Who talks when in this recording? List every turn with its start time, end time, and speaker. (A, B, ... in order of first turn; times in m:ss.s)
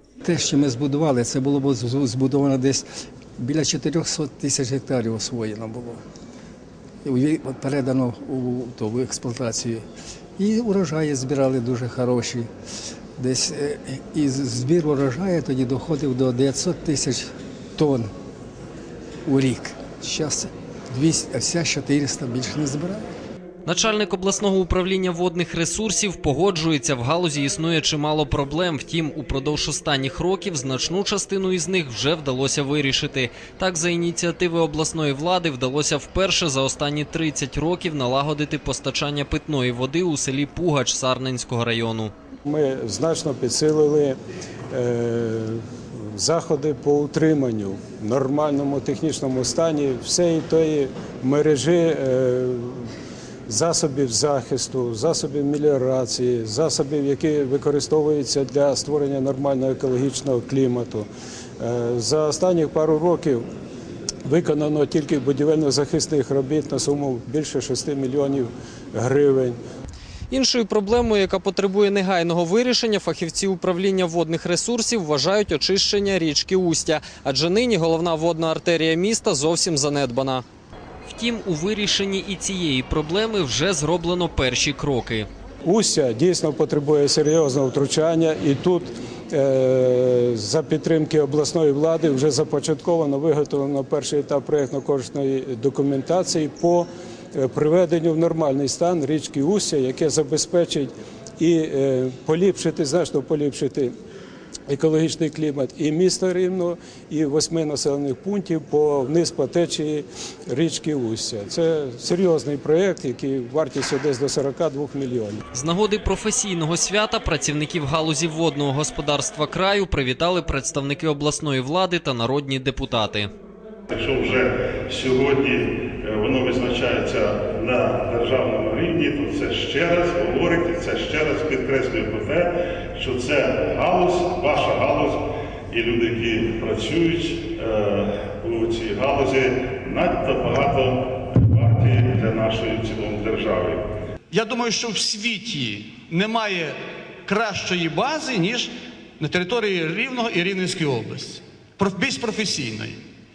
0:00.2-0:02.8 A
0:03.4-0:06.0 A
0:07.0-0:09.8 A
0:10.4-0:12.5 A
0:13.2-0:18.1 A
0:19.2-0:23.0 A
0:23.6-0:42.1 B
0:42.4-0:44.2 C
0:44.7-0:52.9 C
0:53.5-1:01.1 C
1:01.6-1:03.4 C
1:04.2-1:09.6 C
1:10.3-1:20.4 B
1:21.0-1:25.3 B
1:25.6-1:43.9 C
1:44.7-1:55.4 C
1:55.5-2:03.3 B
2:03.9-2:23.8 D
2:24.3-2:33.0 E